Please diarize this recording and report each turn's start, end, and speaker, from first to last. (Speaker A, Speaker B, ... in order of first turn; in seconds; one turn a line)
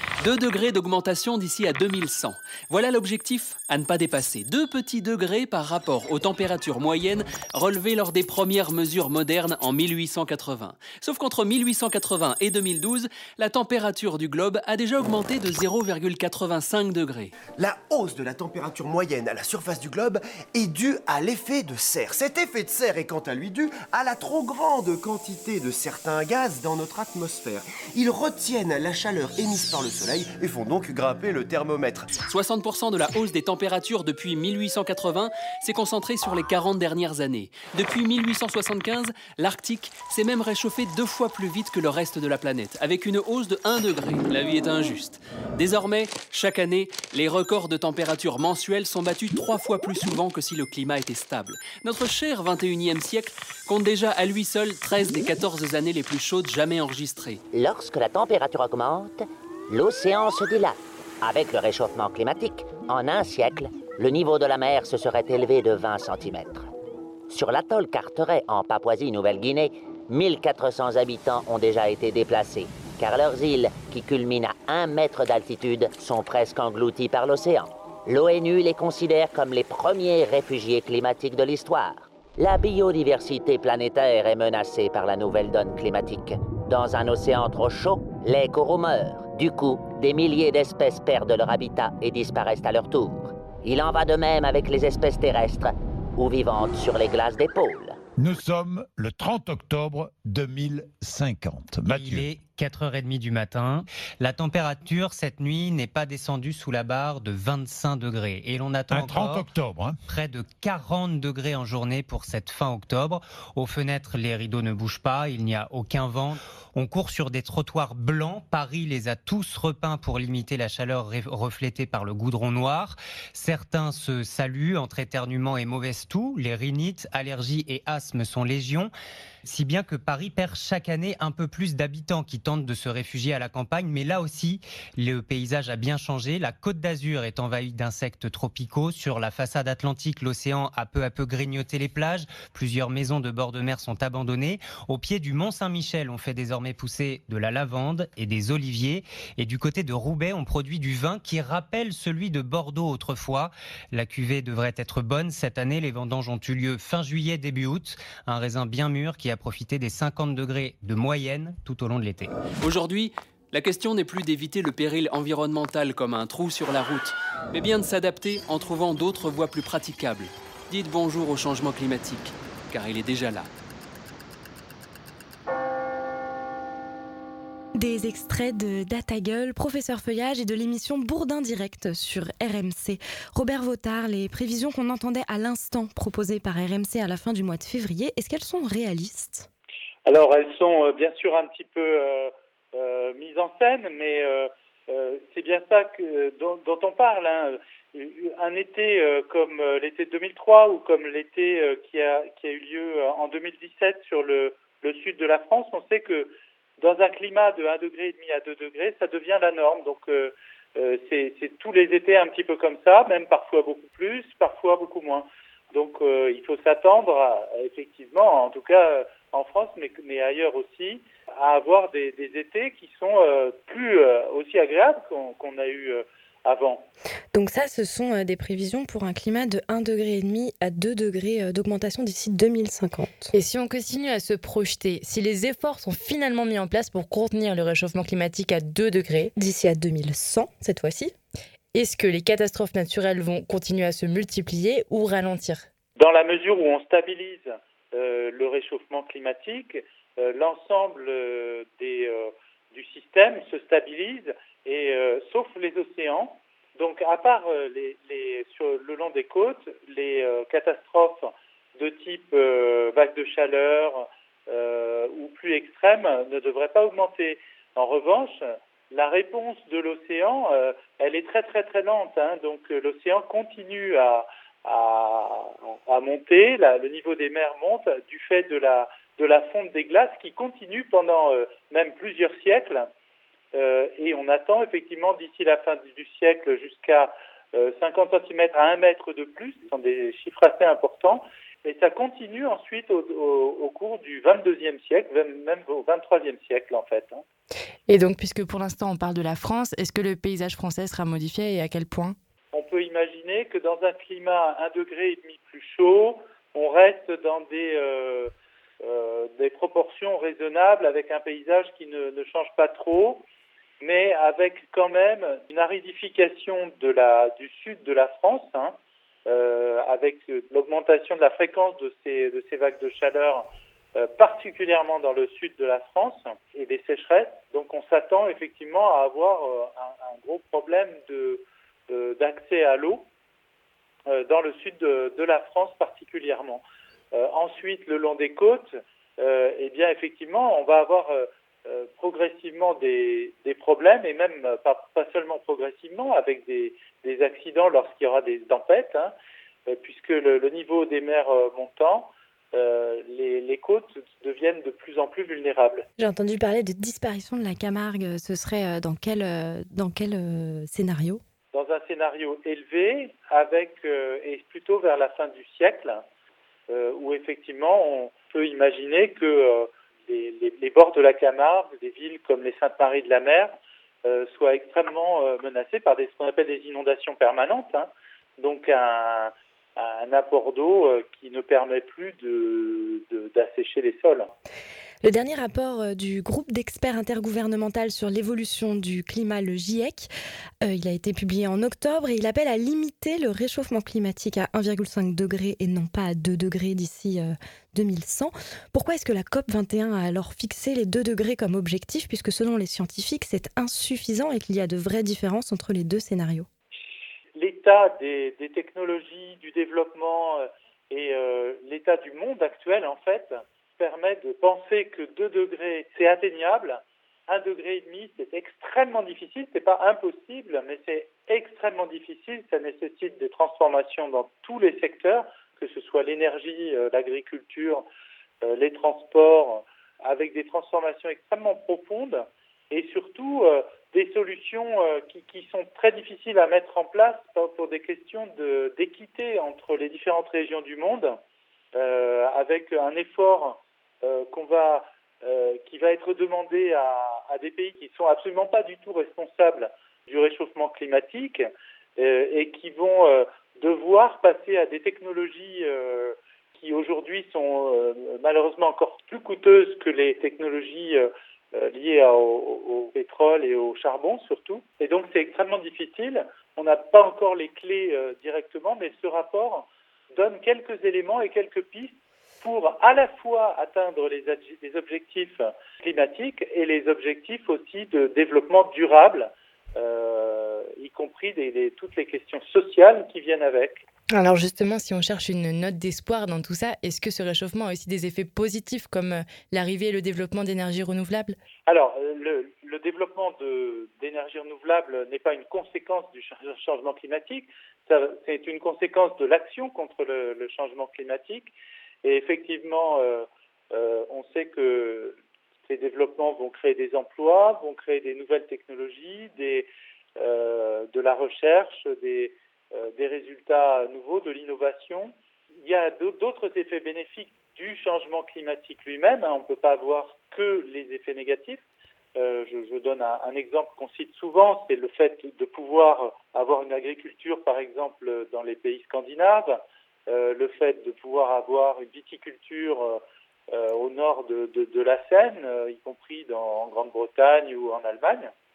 Speaker A: 0.2-17.3
Speaker B: 17.6-32.1
Speaker A: 32.2-57.4
Speaker C: 57.5-66.7
Speaker C: 67.3-98.0
Speaker D: 98.2-102.3
Speaker E: 101.9-109.5
Speaker D: 108.9-110.0
Speaker E: 110.1-128.9
Speaker E: 129.4-162.3
Speaker A: 162.6-173.5
Speaker F: 177.7-189.5
Speaker G: 190.1-226.8
Speaker F: 227.3-233.3
Speaker H: 233.3-239.3
Speaker F: 239.3-241.1
Speaker H: 241.7-245.7
Speaker G: 246.0-282.9
Speaker G: 283.5-297.2
Speaker H: 297.9-302.2
Speaker G: 302.5-308.3
Speaker G: 308.8-313.2
Speaker G: 313.8-318.8
Speaker G: 319.3-333.1
Speaker G: 334.1-336.6
Speaker G: 337.1-349.1
Speaker G: 349.7-355.8
Speaker F: 356.0-361.2
Speaker G: 361.5-366.0
Speaker G: 366.7-384.3
Speaker F: 385.0-390.1
Speaker F: 390.6-406.5
Speaker G: 407.4-427.9
Speaker G: 428.4-441.2
Speaker G: 441.7-483.8
Speaker H: 484.1-491.4
Speaker G: 491.7-501.5
Speaker G: 502.0-521.6
Speaker G: 522.2-529.6
Speaker G: 530.1-538.3